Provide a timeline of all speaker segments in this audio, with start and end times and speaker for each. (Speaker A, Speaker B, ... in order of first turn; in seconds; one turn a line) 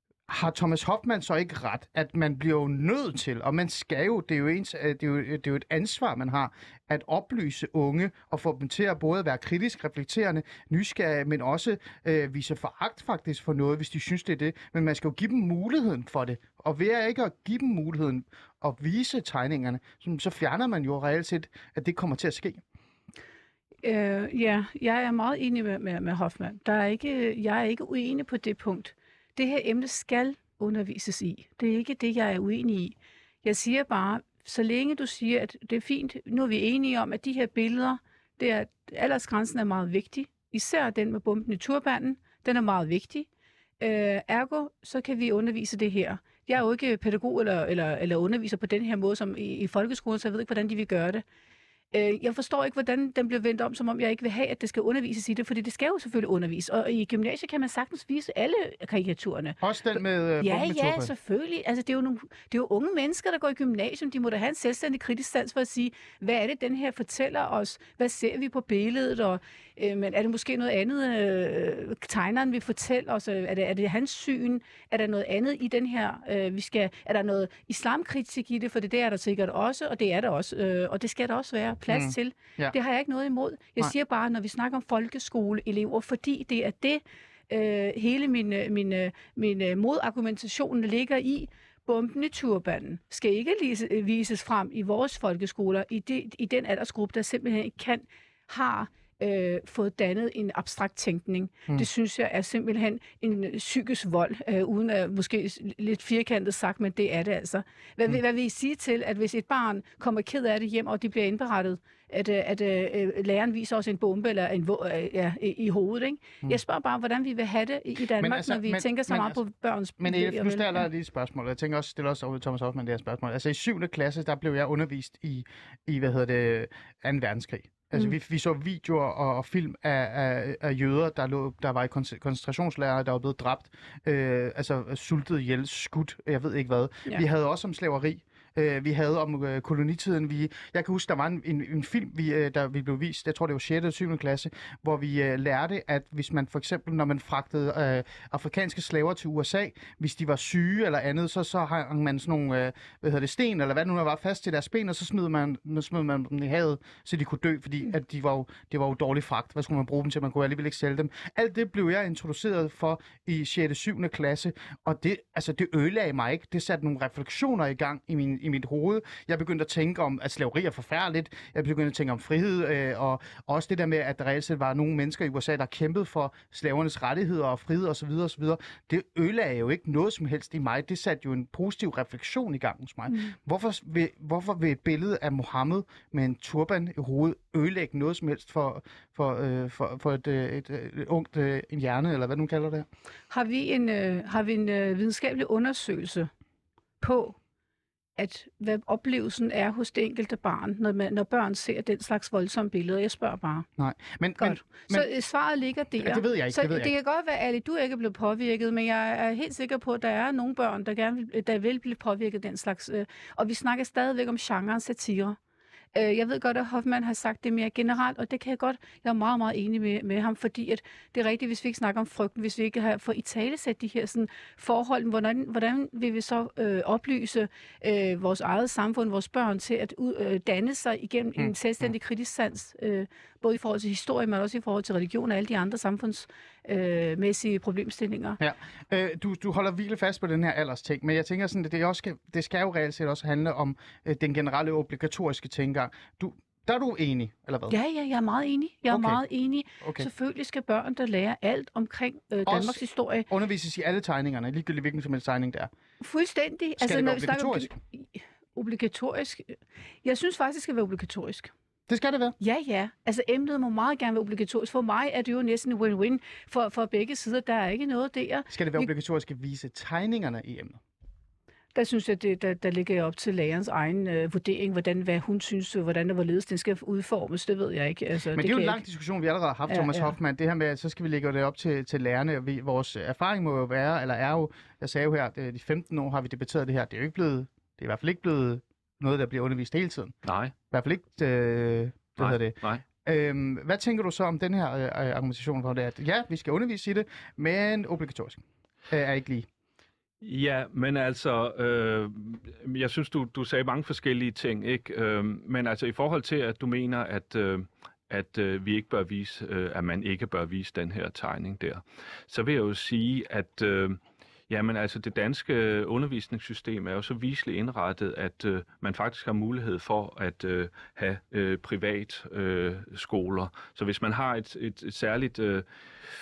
Speaker A: 0.3-22.6
Speaker B: 23.8-43.3
Speaker B: 43.8-51.2
Speaker B: 51.9-120.8
Speaker A: 59.6-61.1
Speaker A: 81.9-82.7
Speaker A: 118.2-119.4
Speaker A: 120.0-192.8
Speaker B: 183.1-183.3
Speaker B: 193.3-196.3
Speaker B: 197.0-197.4
Speaker B: 198.2-203.7
Speaker A: 203.8-205.1
Speaker B: 204.4-215.4
Speaker A: 206.0-206.9
Speaker B: 215.9-238.4
Speaker A: 238.4-247.7
Speaker B: 247.7-253.3
Speaker A: 248.9-249.2
Speaker A: 249.8-250.1
Speaker A: 252.4-255.7
Speaker B: 256.0-261.5
Speaker A: 256.8-257.8
Speaker A: 261.9-262.4
Speaker B: 262.4-268.9
Speaker A: 268.5-270.8
Speaker B: 271.7-278.8
Speaker A: 278.3-290.1
Speaker B: 279.7-280.1
Speaker C: 290.2-290.5
Speaker A: 290.7-299.5
Speaker C: 292.2-292.8
Speaker C: 300.2-325.6